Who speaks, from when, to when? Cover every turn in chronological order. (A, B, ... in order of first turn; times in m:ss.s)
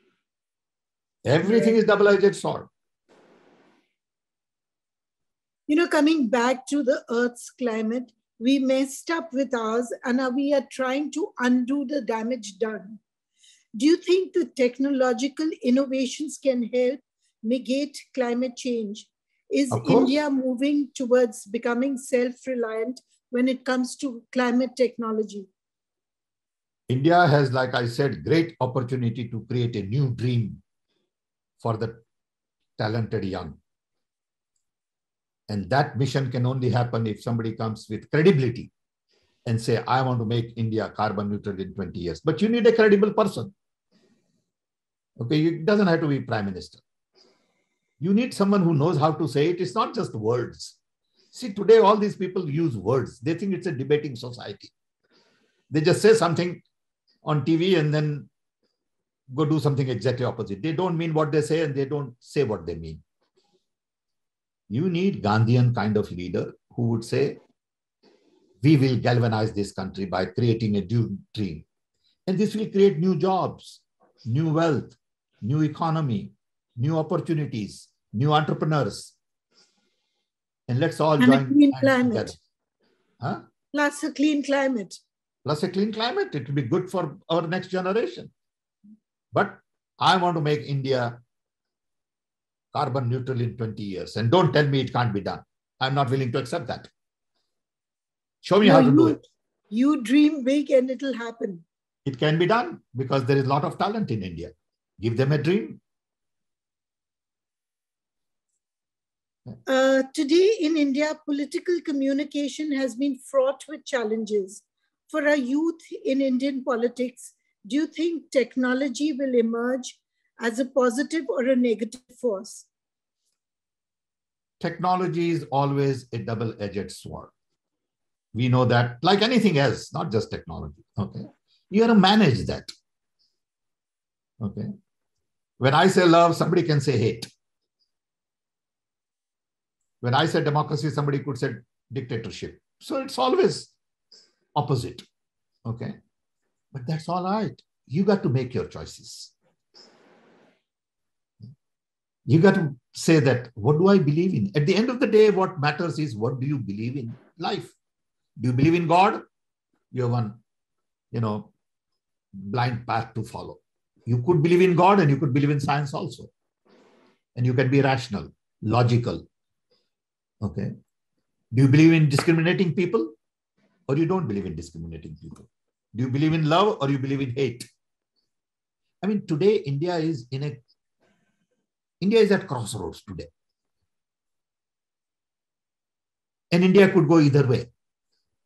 0:01.2-0:02.7 A
0:01.4-0:01.8 B
0:05.7-0:13.0 B
0:13.8-0:25.5 B
0:19.7-0:20.1 A
0:26.9-0:30.6 A
0:31.6-0:32.0 A
0:32.8-0:33.6 A
0:35.5-0:38.7 A
0:39.4-0:43.5 A
0:45.2-0:46.8 A
0:48.0-0:50.8 A
0:51.3-0:54.7 A
0:55.7-0:56.6 A
0:57.2-0:58.3 A
0:59.3-1:03.0 A
1:04.7-1:07.4 A
1:08.6-1:11.6 A
1:12.3-1:19.1 A
1:20.7-1:22.4 A
1:21.2-1:22.3 B
1:23.7-1:25.0 B
1:25.4-1:28.3 A
1:29.3-1:31.2 A
1:32.7-1:36.9 A
1:38.4-1:39.2 A
1:38.6-1:41.6 B
1:42.0-1:45.8 A
1:49.6-2:02.7 B
2:04.6-2:07.3 A
2:08.3-2:12.7 A
2:14.4-2:14.7 A
2:15.6-2:17.3 A
2:20.0-2:23.7 A
2:24.6-2:25.0 A
2:25.6-2:26.0 A
2:26.7-2:29.3 A
2:32.3-2:37.7 A
2:38.4-2:39.2 A
2:39.9-2:40.4 A
2:41.1-2:41.5 A
2:42.3-2:46.3 A
2:47.4-2:49.2 A
2:50.4-2:50.7 A
2:51.5-2:53.1 A
2:53.9-2:57.7 A
2:59.0-3:00.6 A
3:02.0-3:03.3 A
3:06.5-3:07.7 A